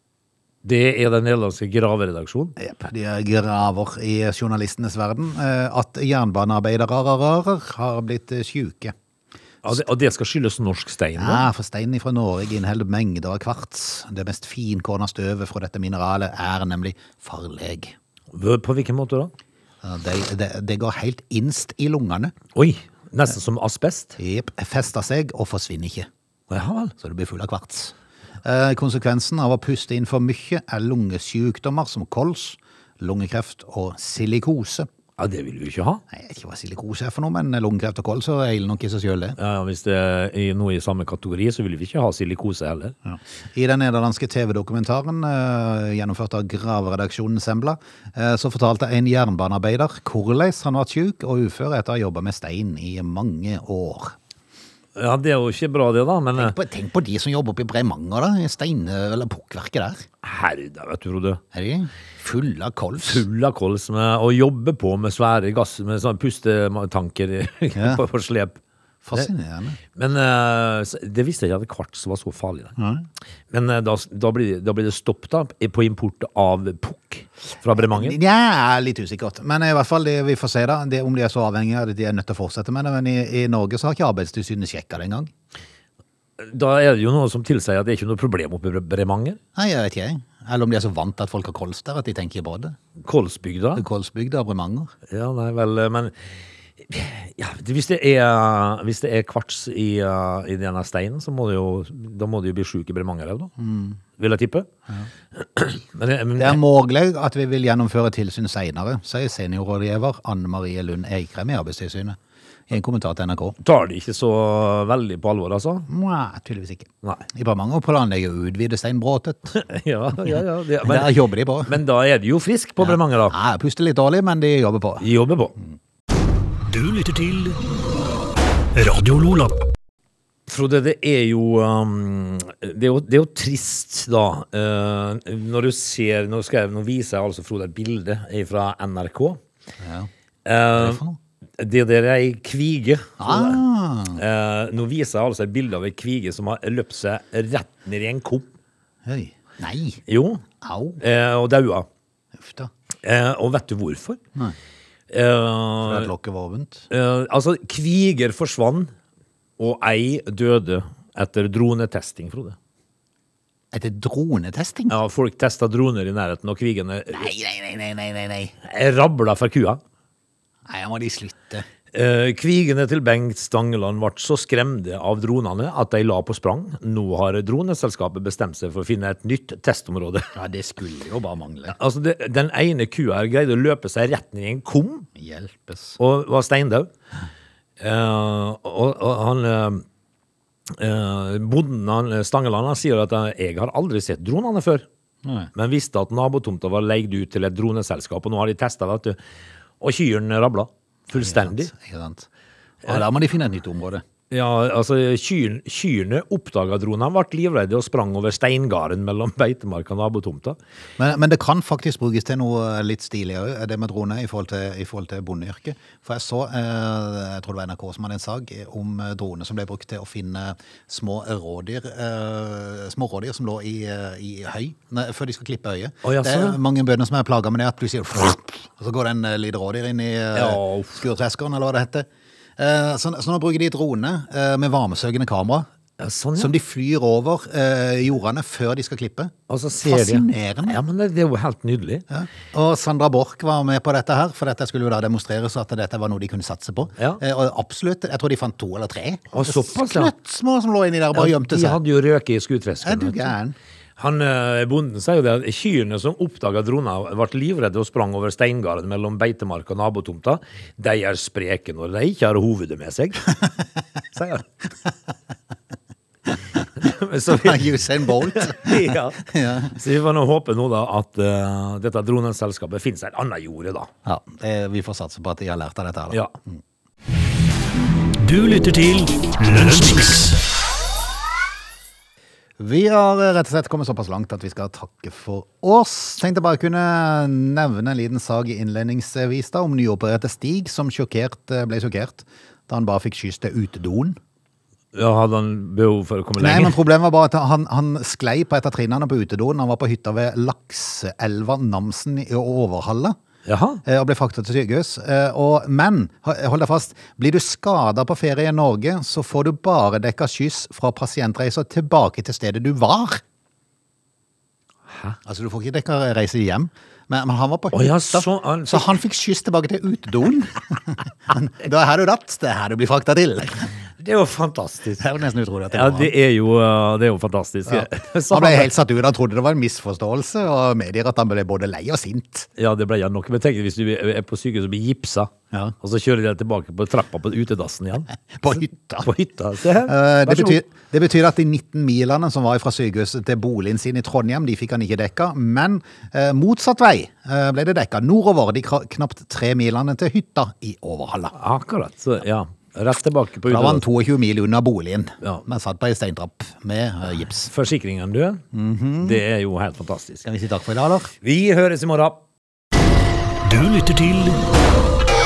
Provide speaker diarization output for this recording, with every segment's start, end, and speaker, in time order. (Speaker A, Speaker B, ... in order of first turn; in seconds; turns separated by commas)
Speaker A: 0.6-2.5, Speaker B: 2.6-8.9, Speaker A: 9.6-11.5, Speaker B: 11.2-17.9, Speaker A: 18.3-19.3, Speaker B: 19.8-22.3, Speaker A: 22.5-24.2, Speaker B: 24.2-26.1, Speaker A: 26.5-26.9, Speaker B: 27.0-34.9, Speaker A: 35.2-36.0, Speaker B: 36.1-39.4, Speaker A: 39.4-42.9, Speaker B: 43.0-54.1, Speaker A: 55.0-56.6, Speaker B: 56.4-60.0, Speaker A: 60.2-61.4, Speaker B: 61.5-63.2, Speaker A: 63.0-68.6, Speaker B: 67.7-68.0, Speaker B: 69.0-69.8, Speaker A: 69.9-72.7, Speaker B: 72.8-73.0, Speaker A: 73.5-78.2, Speaker B: 77.8-85.3, Speaker A: 86.4-89.4, Speaker B: 89.5-92.8, Speaker A: 93.0-93.8, Speaker B: 93.7-94.9, Speaker A: 95.1-96.1, Speaker A: 96.8-103.5, Speaker B: 103.6-104.0, Speaker A: 104.2-104.7, Speaker A: 105.3-106.6, Speaker B: 106.4-112.2, Speaker B: 112.7-113.6, Speaker A: 113.6-115.9, Speaker B: 115.9-119.5, Speaker A: 119.5-123.3, Speaker B: 120.8-121.8, Speaker B: 122.8-125.0, Speaker A: 125.0-125.5, Speaker C: 126.7-127.6, Speaker C: 128.7-129.6, Speaker A: 130.5-139.4, Speaker B: 139.8-140.1, Speaker A: 140.4-141.0, Speaker B: 140.7-141.2, Speaker A: 141.6-143.6, Speaker B: 143.2-144.2, Speaker A: 144.1-148.5, Speaker B: 149.1-150.0, Speaker A: 150.1-150.4, Speaker B: 150.6-151.0, Speaker A: 151.0-151.9, Speaker B: 152.4-152.7, Speaker A: 153.0-154.2, Speaker A: 155.1-156.1, Speaker B: 155.8-156.9, Speaker A: 156.9-158.9, Speaker A: 159.6-162.6, Speaker B: 163.7-165.0, Speaker A: 164.9-167.3, Speaker B: 167.1-168.5, Speaker A: 168.6-169.8, Speaker B: 170.7-171.7, Speaker A: 171.9-180.3, Speaker B: 180.3-181.8, Speaker A: 181.7-185.1, Speaker B: 185.2-186.0, Speaker A: 186.0-186.9, Speaker A: 187.8-189.8, Speaker A: 190.7-194.8, Speaker B: 195.2-195.5, Speaker A: 195.5-199.2, Speaker A: 199.8-201.7, Speaker B: 201.1-202.3, Speaker B: 202.8-204.0, Speaker A: 204.3-210.6, Speaker B: 211.0-232.1, Speaker A: 226.0-226.6, Speaker A: 230.3-231.0, Speaker B: 232.6-235.7, Speaker A: 236.0-236.5, Speaker B: 236.4-240.8, Speaker A: 239.5-242.1, Speaker B: 242.1-251.8, Speaker A: 249.3-250.1, Speaker A: 251.1-253.3, Speaker B: 252.8-253.5, Speaker A: 254.0-263.4, Speaker A: 264.1-264.5, Speaker A: 266.8-273.9, Speaker B: 267.3-269.8, Speaker B: 274.0-276.6, Speaker C: 278.2-280.4, Speaker B: 282.6-294.2, Speaker A: 294.9-296.8, Speaker B: 296.4-303.2, Speaker A: 303.4-303.8, Speaker B: 303.8-313.2, Speaker A: 314.9-315.2, Speaker B: 315.2-323.7, Speaker A: 317.7-318.9, Speaker A: 324.0-325.0, Speaker B: 325.0-326.1, Speaker A: 325.7-328.7, Speaker B: 327.7-332.5, Speaker A: 332.6-340.6, Speaker B: 338.4-339.1, Speaker B: 339.8-351.3, Speaker A: 351.3-353.8, Speaker B: 353.4-357.5, Speaker A: 357.4-358.4, Speaker B: 358.5-359.2, Speaker A: 359.0-360.2, Speaker B: 360.2-361.1, Speaker A: 361.2-362.2, Speaker C: 363.4-364.4